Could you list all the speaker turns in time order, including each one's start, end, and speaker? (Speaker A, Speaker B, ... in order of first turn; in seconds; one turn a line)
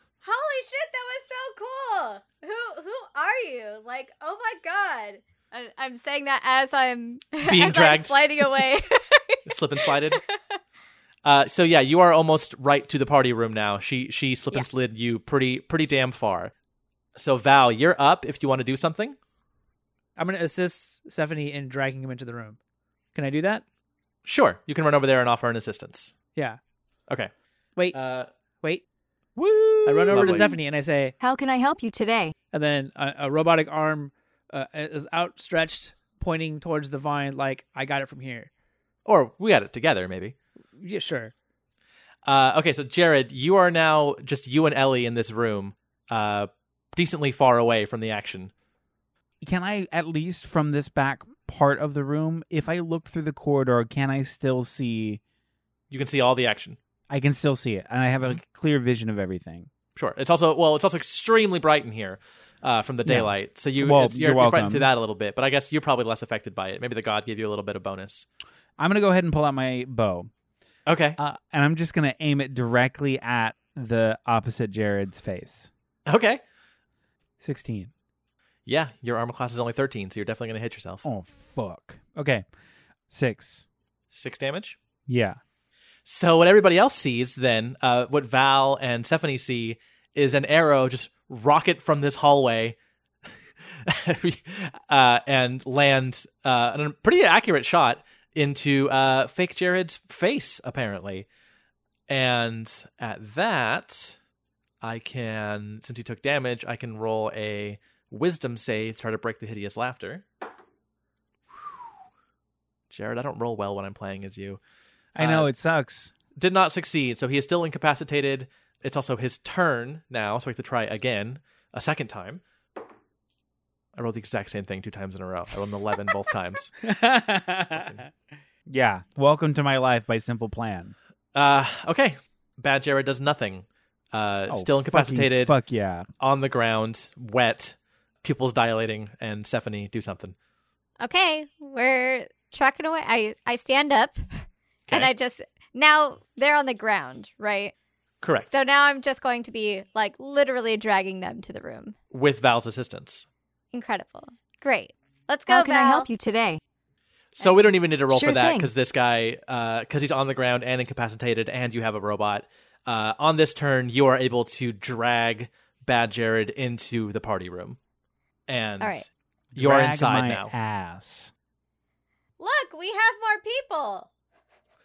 Speaker A: 0.2-10.3
Speaker B: 7.4-8.5
Speaker B: 9.4-10.2
Speaker B: 11.2-16.5
Speaker B: 17.1-19.2
Speaker C: 20.2-22.6
Speaker C: 23.1-23.6
Speaker B: 24.2-26.1
Speaker B: 27.9-28.3
Speaker D: 29.4-30.5
Speaker C: 29.8-31.1
Speaker B: 30.1-30.5
Speaker E: 31.2-32.3
Speaker C: 32.5-38.5
Speaker B: 39.0-40.3
Speaker C: 40.8-41.3
Speaker B: 42.2-48.5
Speaker D: 49.4-55.2
Speaker B: 55.9-56.8
Speaker D: 57.1-59.7
Speaker B: 59.9-68.2
Speaker D: 63.0-64.9
Speaker D: 68.8-70.3
Speaker B: 70.8-71.2
Speaker D: 71.2-75.7
Speaker B: 76.1-76.4
Speaker D: 77.4-77.9
Speaker B: 78.7-81.0
Speaker D: 81.0-82.5
Speaker D: 83.1-83.6
Speaker B: 84.1-84.8
Speaker D: 85.1-85.4
Speaker B: 86.0-92.8
Speaker B: 93.8-101.3
Speaker B: 102.1-104.2
Speaker B: 104.8-110.2
Speaker B: 112.9-114.6
Speaker D: 115.2-116.1
Speaker B: 115.2-115.5
Speaker B: 116.3-122.4
Speaker B: 124.0-126.7
Speaker C: 126.8-128.1
Speaker B: 127.7-128.0
Speaker D: 128.7-130.9
Speaker B: 131.3-135.5
Speaker D: 134.5-136.1
Speaker B: 136.2-140.3
Speaker A: 141.0-144.2
Speaker A: 144.9-147.7
Speaker B: 148.2-148.5
Speaker A: 148.5-151.9
Speaker B: 152.1-153.2
Speaker A: 153.7-156.1
Speaker E: 155.5-156.6
Speaker B: 157.3-167.8
Speaker A: 157.4-157.7
Speaker E: 158.1-158.7
Speaker B: 168.5-170.5
Speaker A: 168.8-169.1
Speaker D: 169.5-171.3
Speaker A: 172.4-174.1